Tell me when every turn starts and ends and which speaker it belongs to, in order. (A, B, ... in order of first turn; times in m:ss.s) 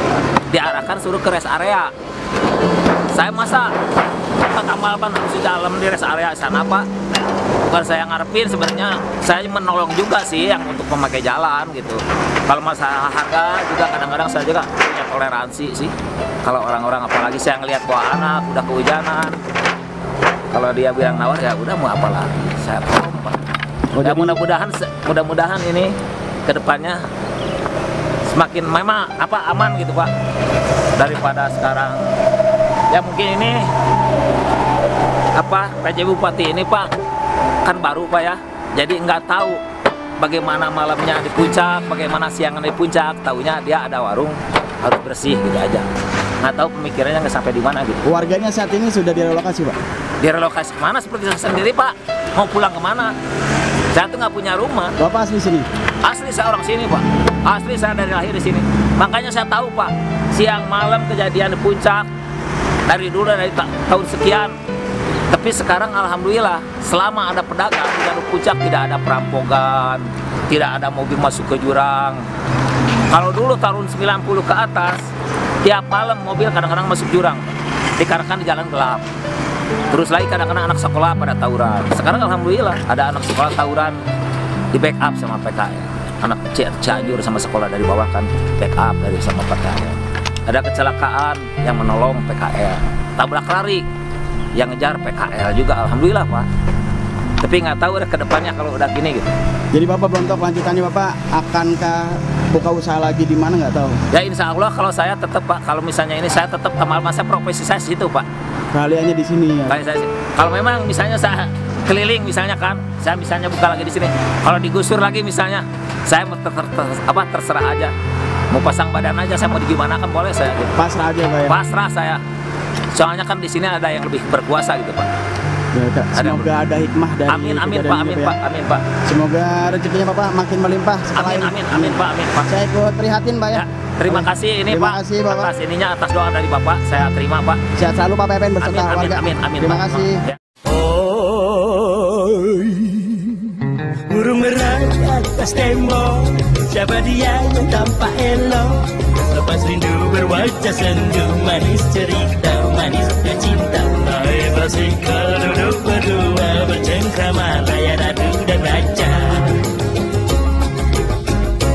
0:00.5-0:01.9 A
0:03.1-0:03.7 A
0:04.5-0:06.9 A
0:07.7-0:15.9 A
0:16.4-0:19.4 A
0:20.5-0:23.4 A
0:23.9-0:24.4 B
0:24.0-0:25.9 A
0:26.5-0:27.0 A
0:28.3-0:30.1 A
0:31.0-0:32.1 A
0:32.9-0:33.7 A
0:35.4-0:36.9 A
0:37.6-0:39.6 A
0:40.2-0:45.9 A
0:46.4-0:48.0 A
0:48.0-0:49.8 B
0:50.2-0:53.1 A
0:53.9-0:54.9 A
0:55.0-0:55.7 B
0:56.0-1:02.1 A
1:02.9-1:04.5 A
1:05.3-1:12.2 A
1:13.1-1:15.1 A
1:15.6-1:19.0 A
1:19.9-1:24.0 A
1:24.7-1:33.8 A
1:34.6-1:36.5 A
1:37.4-1:39.3 A
1:39.7-1:44.0 B
1:44.1-1:48.3 A
1:48.7-1:49.8 B
1:49.7-1:57.9 A
1:58.5-2:00.7 A
2:00.7-2:01.6 B
2:01.5-2:02.2 A
2:03.0-2:05.1 A
2:05.7-2:08.3 B
2:06.2-2:06.5 A
2:07.3-2:08.8 A
2:09.1-2:15.5 B
2:11.1-2:12.5 A
2:13.5-2:17.6 A
2:17.8-2:20.2 B
2:18.6-2:20.4 A
2:20.7-2:23.1 C
2:24.1-2:39.6 C